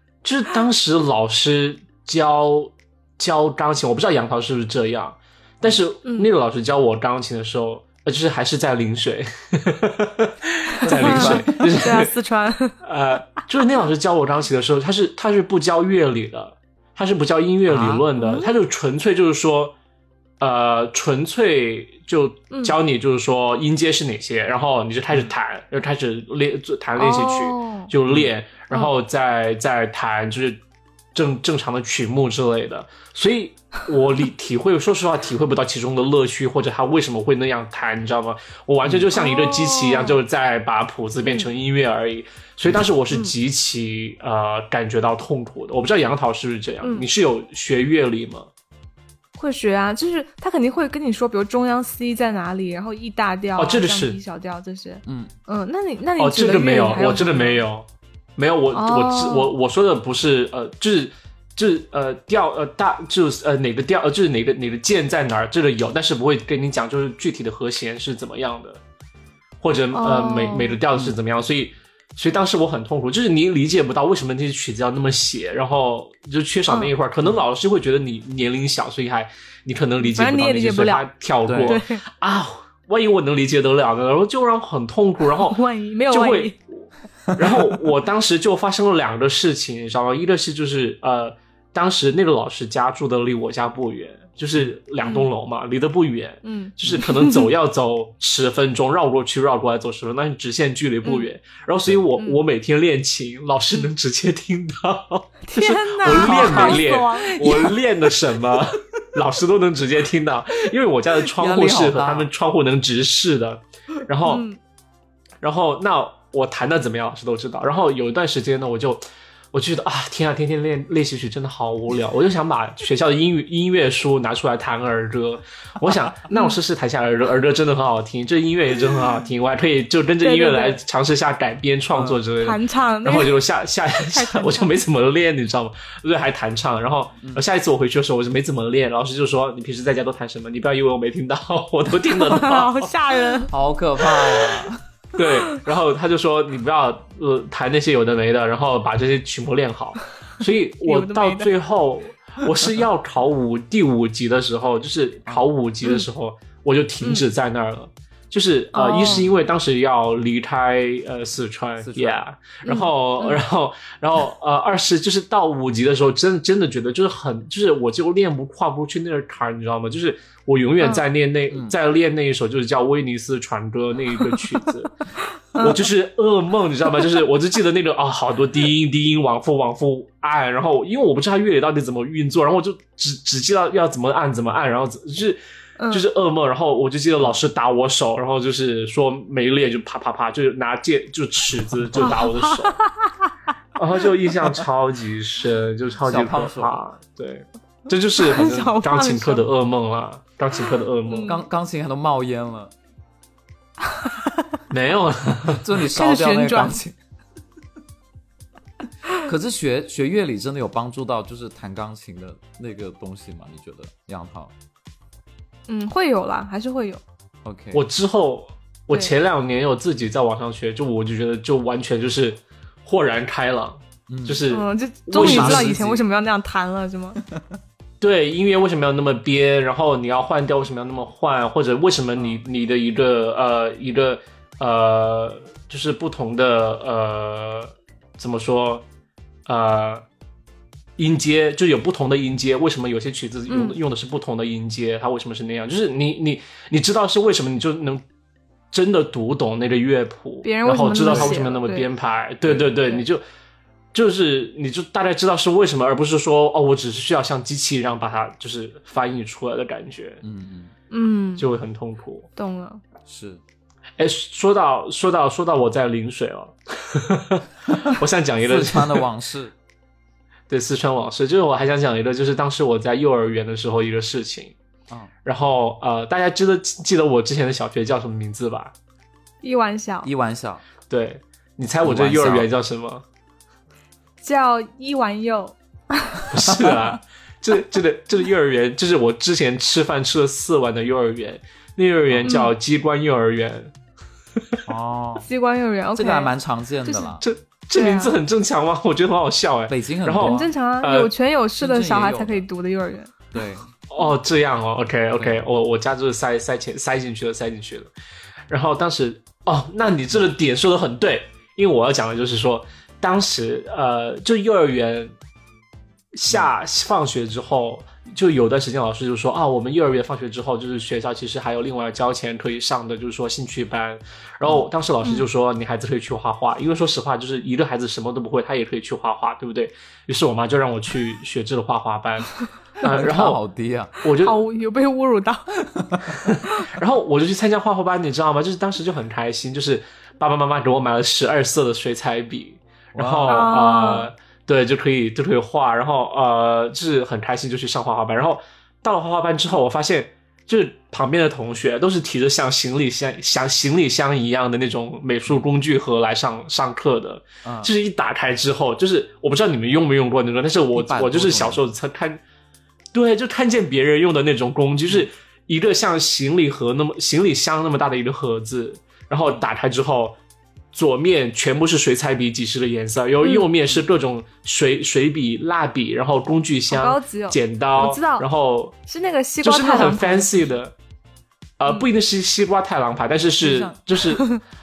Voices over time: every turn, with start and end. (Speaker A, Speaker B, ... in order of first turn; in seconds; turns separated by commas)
Speaker A: 0.2-12.1, Speaker B: 6.0-6.3, Speaker C: 10.8-11.7, Speaker B: 10.9-12.7, Speaker A: 12.8-19.8, Speaker C: 17.7-18.1, Speaker B: 18.2-18.5, Speaker A: 20.4-30.6, Speaker B: 22.5-22.8, Speaker B: 27.0-27.9, Speaker C: 28.1-28.3, Speaker A: 31.1-48.5, Speaker B: 39.1-40.2, Speaker B: 41.2-41.5, Speaker B: 46.8-47.1, Speaker B: 49.4-57.6, Speaker A: 53.6-54.2, Speaker C: 55.1-55.3, Speaker A: 56.2-57.9, Speaker A: 58.4-68.8, Speaker B: 58.7-59.5, Speaker A: 69.6-85.6, Speaker B: 69.9-70.8, Speaker B: 80.0-81.1, Speaker C: 81.5-81.8, Speaker B: 81.6-82.0, Speaker B: 85.4-86.5, Speaker A: 86.1-114.4, Speaker C: 87.4-87.6, Speaker B: 95.0-95.3, Speaker B: 96.4-97.5, Speaker B: 101.0-101.3, Speaker B: 105.4-107.8, Speaker C: 106.1-106.9, Speaker C: 111.1-112.3, Speaker B: 114.3-114.6, Speaker A: 115.4-142.9, Speaker B: 126.3-126.6, Speaker B: 130.2-130.8, Speaker C: 131.9-132.2, Speaker B: 132.4-133.4, Speaker B: 134.0-134.8, Speaker B: 142.1-143.5, Speaker C: 143.5-144.8, Speaker A: 145.1-174.9, Speaker B: 150.8-151.5, Speaker B: 158.7-159.3, Speaker C: 161.8-162.2, Speaker B: 162.6-163.4, Speaker B: 175.5-175.8, Speaker A: 175.6-192.8, Speaker B: 185.8-186.1, Speaker B: 192.0-193.3, Speaker A: 193.8-201.3, Speaker C: 196.0-196.8, Speaker B: 198.2-199.4, Speaker B: 201.1-201.4, Speaker C: 201.2-202.7, Speaker B: 203.9-204.6, Speaker A: 204.7-205.6, Speaker C: 205.6-207.0, Speaker B: 205.9-206.8, Speaker C: 209.2-214.5, Speaker B: 215.7-217.0, Speaker C: 217.4-217.8, Speaker A: 217.7-226.0, Speaker C: 224.1-224.4, Speaker B: 224.5-227.2, Speaker C: 225.1-226.0, Speaker A: 228.0-238.8, Speaker A: 239.5-240.1, Speaker A: 241.0-248.0, Speaker B: 243.5-243.8, Speaker A: 248.7-253.2, Speaker B: 250.4-251.9, Speaker C: 251.1-251.4, Speaker C: 252.5-252.7, Speaker A: 253.9-260.2, Speaker C: 260.2-260.7, Speaker B: 260.9-261.5, Speaker A: 261.4-262.3, Speaker B: 262.4-262.8, Speaker C: 263.1-263.4, Speaker A: 264.0-269.1, Speaker C: 268.4-269.5, Speaker A: 270.5-274.6, Speaker A: 275.2-278.7, Speaker B: 279.4-280.1, Speaker C: 280.0-280.6, Speaker A: 280.9-283.0, Speaker C: 281.8-282.5, Speaker B: 284.2-286.2, Speaker A: 286.3-293.7, Speaker C: 292.1-292.4, Speaker B: 292.2-292.5, Speaker C: 294.7-295.3, Speaker B: 295.2-296.3, Speaker C: 295.9-297.2, Speaker B: 296.9-297.2, Speaker A: 297.2-301.1, Speaker B: 297.7-298.2, Speaker C: 299.7-300.5, Speaker B: 300.2-303.1, Speaker C: 301.6-302.5, Speaker C: 303.3-303.6, Speaker A: 303.9-307.9, Speaker C: 305.2-305.5, Speaker A: 308.5-315.1, Speaker A: 316.1-333.4, Speaker C: 332.9-333.9, Speaker A: 334.0-334.4, Speaker B: 334.2-335.6, Speaker C: 335.7-336.2, Speaker A: 336.2-362.2, Speaker C: 342.9-343.6, Speaker B: 343.3-344.1, Speaker C: 357.4-357.7, Speaker C: 360.7-361.6, Speaker A: 362.9-370.1, Speaker A: 370.7-378.8, Speaker B: 376.7-378.3, Speaker B: 378.9-380.5, Speaker A: 379.4-380.8, Speaker A: 381.6-384.4, Speaker C: 383.4-383.8